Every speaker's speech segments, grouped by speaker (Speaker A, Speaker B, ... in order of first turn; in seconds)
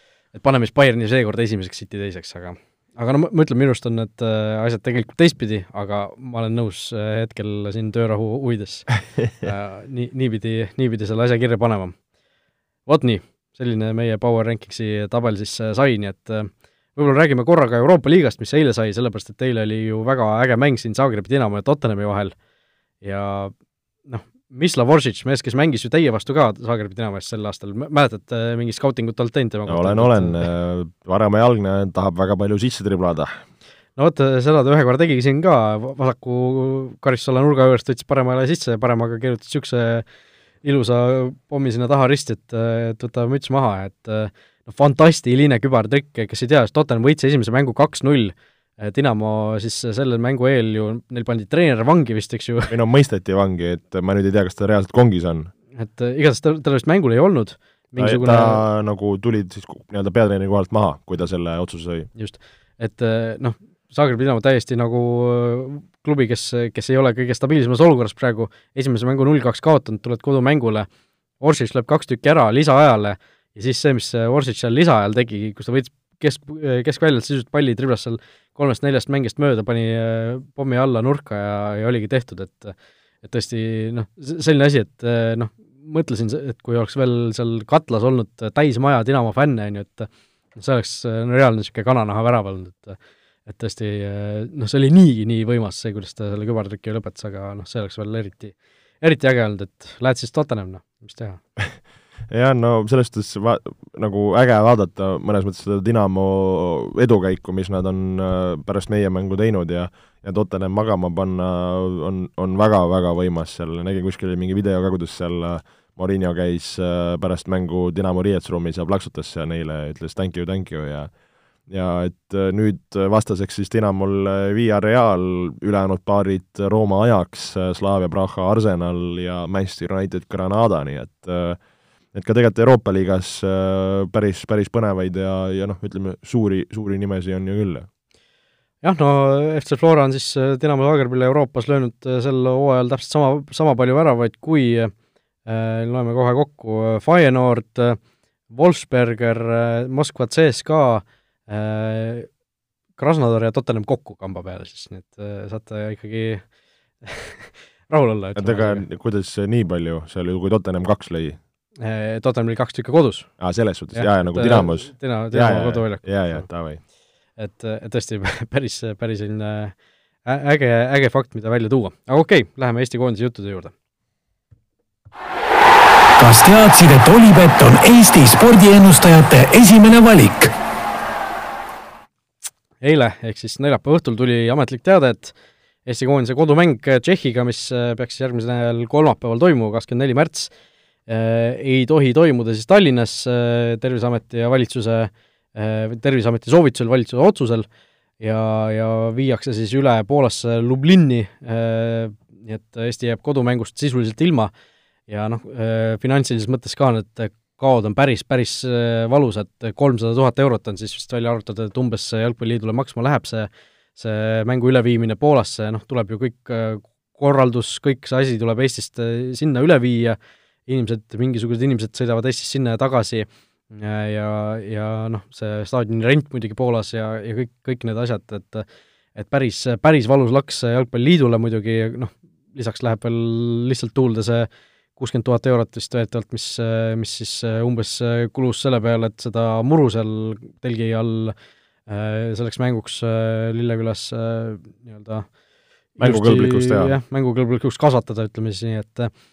Speaker A: 0.3-8.9, 9.4-12.0, 12.9-22.4, 23.0-23.5, 24.1-30.4, 34.0-40.0, 40.6-52.7, 55.8-58.6, 62.1-70.9, 71.4-101.4, 138.8-144.9, 145.5-148.0, 148.5-152.3, 153.0-156.4, 157.0-158.8, 161.8-163.3, 163.9-166.4, 167.4-169.7, 170.3-173.7, 182.8-185.3, 185.9-190.5, 191.1-197.7, 198.2-204.5, 205.1-228.7, 229.2-241.3, 241.9-245.3, 246.0-249.1
Speaker B: 29.7-33.4, 52.7-55.5, 58.0-62.1, 102.3-121.1, 121.7-131.6, 132.1-137.9, 158.4-161.4, 163.4-166.8, 246.0-247.0
Speaker C: 176.2-180.5